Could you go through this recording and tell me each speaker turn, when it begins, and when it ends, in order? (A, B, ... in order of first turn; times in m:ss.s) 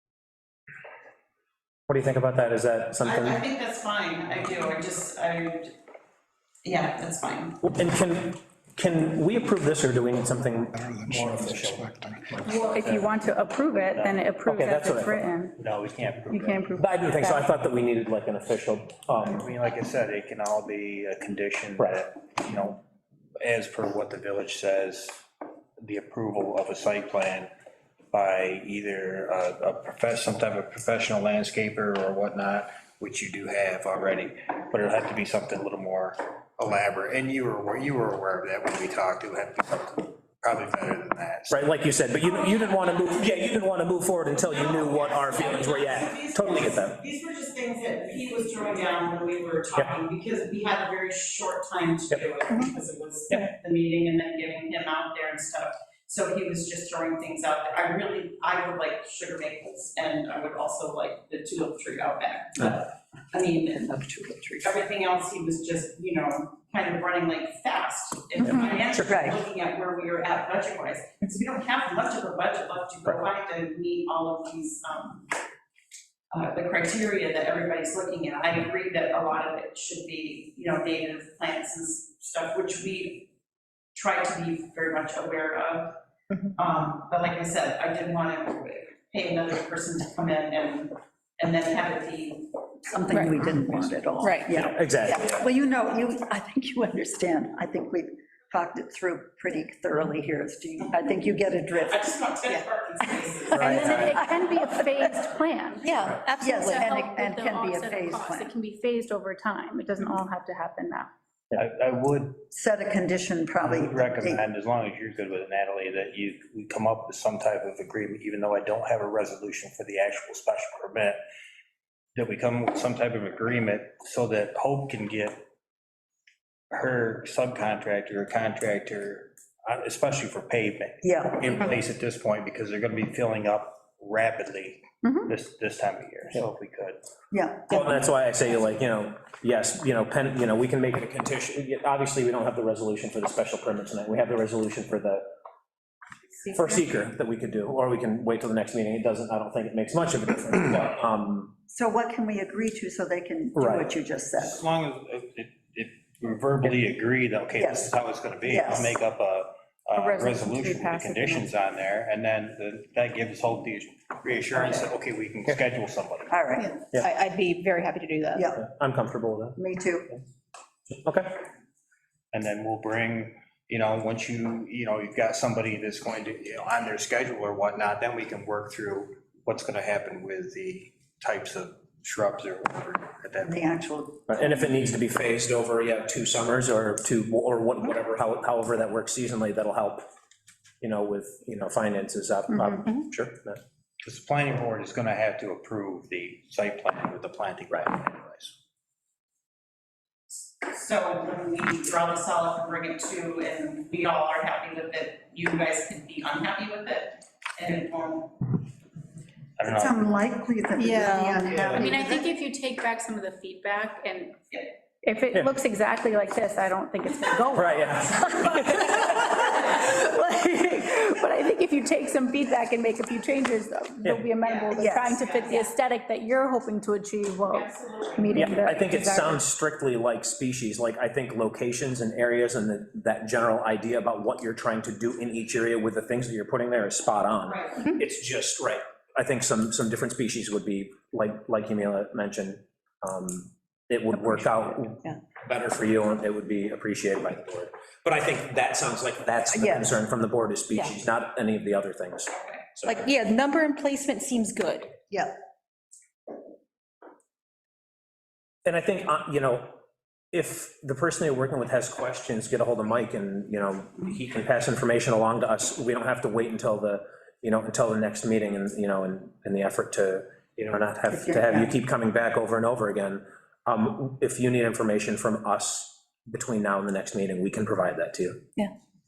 0:01.9-0:03.4 A
0:03.0-0:05.7 B
0:06.6-0:07.6 B
0:07.6-0:12.5 A
0:10.9-0:13.1 C
0:12.4-0:15.6 D
0:13.9-0:14.2 C
0:14.4-0:15.3 A
0:15.6-0:16.6 C
0:16.3-0:17.5 D
0:16.8-0:19.5 A
0:19.3-0:22.8 C
0:23.4-0:25.1 C
0:25.8-0:27.5 C
0:28.1-0:41.6 C
0:41.5-0:47.0 A
0:42.3-0:42.8 B
0:44.4-1:03.9 B
1:03.8-1:04.7 E
1:04.6-1:15.3 B
1:09.0-1:09.4 E
1:16.3-1:23.3 B
1:23.9-1:26.0 B
1:26.5-1:32.5 B
1:32.9-1:42.1 E
1:33.1-1:33.4 F
1:34.2-1:34.5 F
1:34.6-1:35.4 A
1:41.8-1:44.3 B
1:43.6-1:44.1 A
1:43.6-1:45.9 D
1:43.6-1:45.0 F
1:45.8-1:46.9 F
1:46.4-1:48.5 E
1:46.5-1:51.1 D
1:51.5-1:52.4 C
1:52.5-1:54.4 E
1:53.6-2:01.2 C
2:02.2-2:05.4 C
2:06.7-2:17.0 C
2:11.0-2:11.7 E
2:17.3-2:18.0 E
2:17.7-2:25.3 A
2:26.5-2:31.5 A
2:31.7-2:34.6 E
2:33.6-2:33.9 A
2:34.4-2:46.4 C
2:37.6-2:38.9 E
2:40.0-2:41.5 D
2:46.3-2:46.8 E
2:46.6-2:48.5 F
2:48.4-2:48.6 E
2:48.6-2:49.6 A
2:49.6-2:50.1 E
2:51.0-2:51.3 A
2:52.3-3:03.7 C
3:03.4-3:04.4 E
3:04.3-3:10.1 A
3:10.8-3:13.6 A
3:14.0-3:18.5 C
3:20.6-3:28.6 B
3:29.6-3:29.9 C
3:29.7-3:32.2 E
3:30.8-3:31.6 F
3:31.7-3:34.4 D
3:35.0-3:49.4 D
3:37.5-3:38.9 A
3:44.4-3:45.7 B
3:44.7-3:45.2 E
3:47.5-3:48.8 B
3:48.3-4:13.1 A
3:57.4-3:57.8 B
4:09.5-4:09.9 E
4:12.8-4:14.9 F
4:18.6-4:19.8 A
4:20.3-4:38.4 A
4:31.1-4:31.7 E